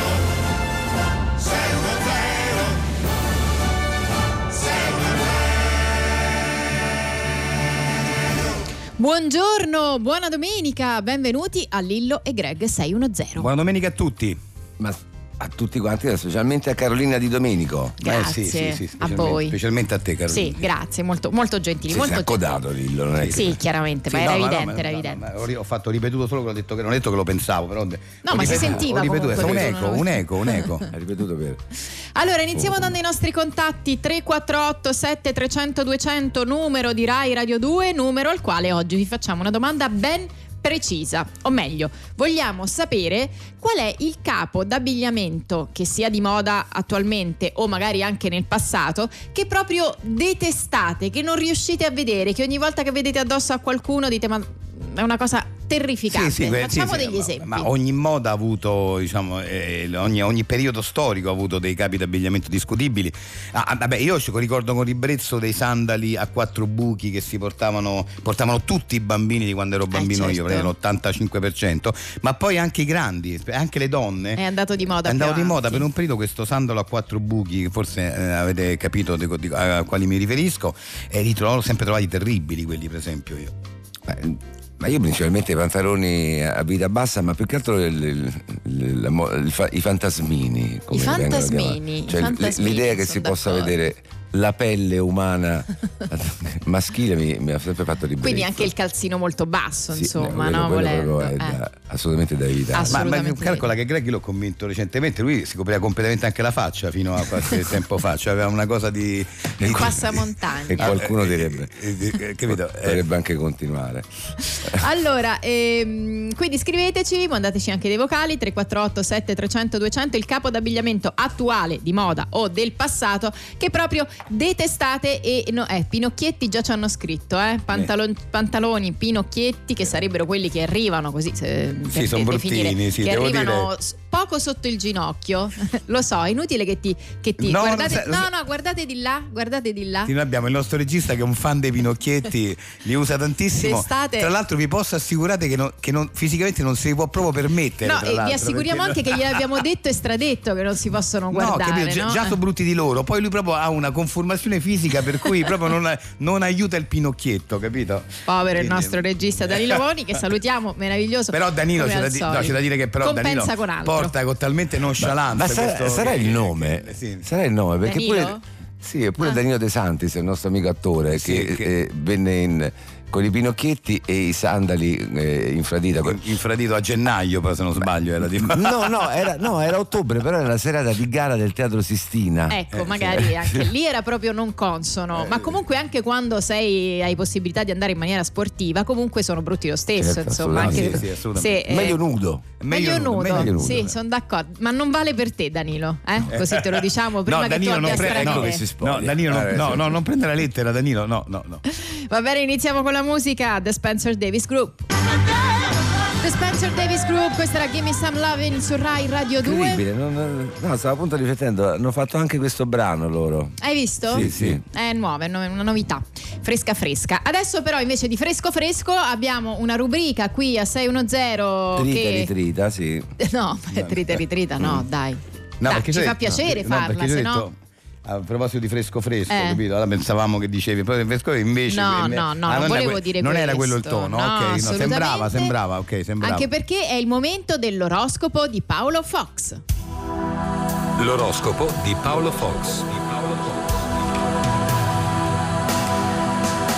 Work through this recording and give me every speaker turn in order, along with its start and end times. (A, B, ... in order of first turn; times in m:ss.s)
0:09.0-0:13.5 A
0:13.4-0:14.4 B
0:14.8-0:18.0 C
0:18.0-0:19.6 A
0:18.0-0:20.6 B
0:20.3-0:22.6 A
0:21.9-0:23.6 C
0:23.2-0:23.5 B
0:23.3-0:25.2 A
0:24.1-0:30.9 B
0:28.2-0:30.7 A
0:28.4-0:29.6 C
0:30.9-0:31.6 C
0:32.1-0:57.7 A
0:32.5-0:32.9 C
0:56.1-1:14.4 B
1:09.9-1:10.7 A
1:14.4-1:15.8 A
1:15.0-1:23.5 B
1:24.1-1:38.7 C
1:30.9-1:33.7 A
1:38.2-1:41.6 A
1:39.9-1:43.0 C
1:42.7-1:43.7 A
1:42.9-1:50.1 B
1:49.6-1:49.9 C
1:49.6-1:51.0 A
1:50.7-1:53.0 B
1:50.8-1:51.9 C
1:52.5-1:54.1 C
1:54.5-2:20.1 A
2:11.9-2:13.7 B
2:17.4-2:18.3 B
2:20.0-2:29.4 B
2:23.6-2:24.3 A
2:27.8-2:32.3 A
2:31.3-2:39.8 B
2:38.2-2:44.1 A
2:41.3-2:47.2 B
2:45.0-2:56.2 C
2:47.8-2:48.4 A
2:51.1-2:51.7 B
2:56.1-2:58.9 B
2:58.4-3:03.4 C
3:02.5-3:12.0 A
3:05.1-3:05.5 B
3:10.0-3:11.0 C
3:10.5-3:11.6 B
3:11.6-3:12.5 C
3:12.6-3:13.6 B
3:12.7-3:18.6 A
3:13.3-3:13.9 C
3:16.3-3:21.6 B
3:17.8-3:20.0 C
3:21.7-3:24.8 A
3:26.2-3:29.8 A
3:29.4-3:34.6 C
3:33.6-3:42.3 A
3:34.1-3:34.6 B
3:41.8-3:43.1 C
3:43.2-3:47.4 A
3:45.6-3:56.5 B
3:49.3-3:49.6 A
3:51.7-3:55.5 A
3:56.2-3:59.6 A
4:01.0-4:03.6 D